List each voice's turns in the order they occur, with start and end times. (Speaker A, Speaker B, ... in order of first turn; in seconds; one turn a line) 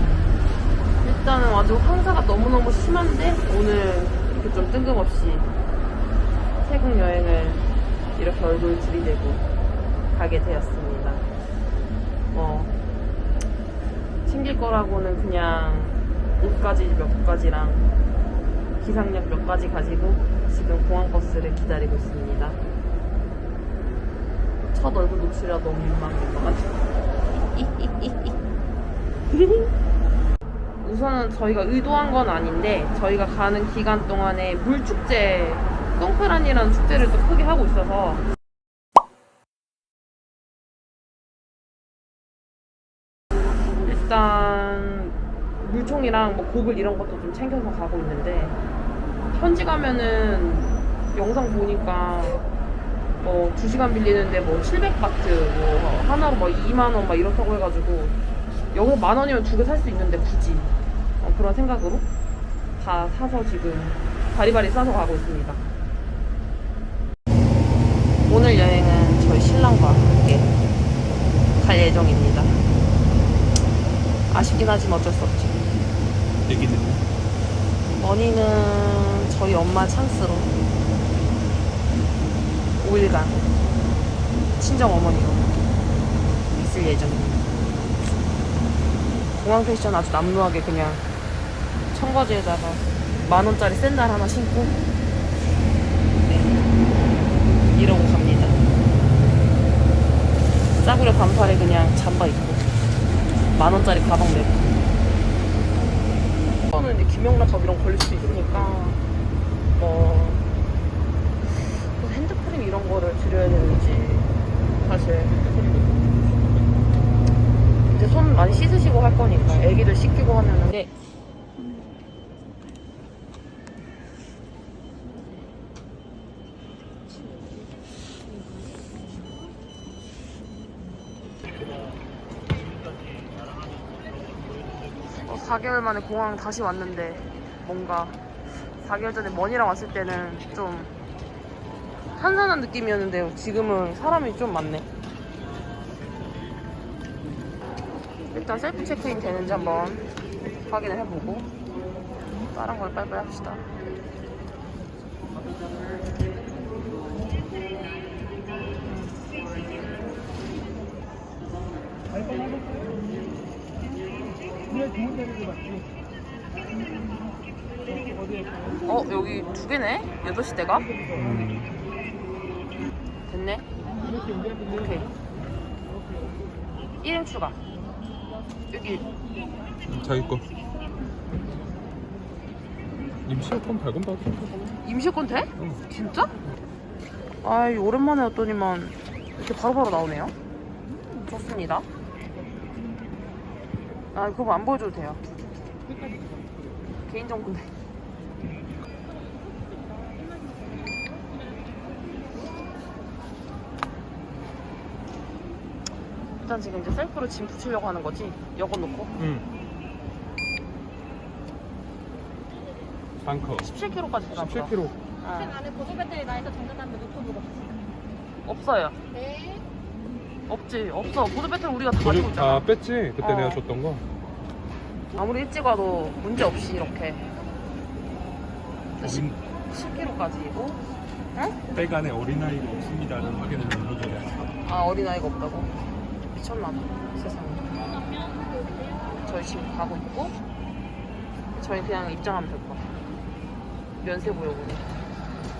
Speaker A: 1.0-5.5
Speaker A: 6.6-9.5
Speaker A: 10.1-11.3
Speaker A: 12.3-12.7
Speaker A: 14.3-17.9
Speaker A: 18.8-22.6
Speaker A: 24.7-26.8
Speaker A: 27.4-28.4
Speaker A: 29.3-29.7
Speaker A: 30.8-38.2
Speaker A: 43.9-48.6
Speaker A: 49.3-52.5
Speaker A: 53.2-58.2
Speaker A: 58.7-62.1
Speaker A: 62.8-65.7
Speaker A: 68.3-70.5
Speaker A: 71.6-72.6
Speaker A: 74.3-75.7
Speaker B: 76.5-77.0
Speaker A: 77.9-80.5
Speaker A: 82.8-83.4
Speaker A: 84.6-85.5
Speaker A: 86.5-87.4
Speaker A: 89.3-91.0
Speaker A: 91.9-94.8
Speaker A: 96.2-96.6
Speaker A: 97.7-98.6
Speaker A: 100.8-102.7
Speaker A: 103.5-104.8
Speaker A: 106.7-109.0
Speaker A: 109.8-110.4
Speaker A: 111.5-115.3
Speaker B: 115.0-117.0
Speaker A: 117.9-120.9
Speaker A: 135.1-140.9
Speaker A: 142.2-144.9
Speaker A: 148.3-150.1
Speaker A: 150.7-151.5
Speaker A: 152.5-153.7
Speaker A: 158.8-159.2
Speaker A: 168.8-170.9
Speaker B: 171.1-171.8
Speaker A: 173.3-173.7
Speaker A: 174.3-175.1
Speaker A: 177.0-177.6
Speaker A: 178.7-179.1
Speaker B: 179.8-180.5
Speaker B: 183.2-184.7
Speaker A: 184.7-186.3
Speaker B: 185.6-185.8
Speaker A: 187.4-190.3
Speaker A: 191.2-191.9
Speaker A: 194.1-195.2
Speaker A: 197.0-197.7
Speaker C: 199.5-201.5
Speaker A: 206.4-209.1
Speaker B: 209.2-209.5
Speaker B: 213.2-213.7
Speaker A: 213.6-215.6
Speaker B: 214.3-215.0
Speaker C: 215.6-217.3
Speaker A: 218.4-219.0
Speaker A: 220.5-222.7
Speaker B: 222.0-224.0
Speaker A: 223.2-223.6
Speaker A: 225.2-227.3
Speaker A: 229.0-230.8
Speaker B: 229.0-229.4
Speaker B: 231.7-234.6
Speaker A: 234.6-235.7
Speaker A: 236.3-237.7
Speaker A: 239.2-240.4
Speaker A: 241.6-242.8
Speaker A: 244.0-244.8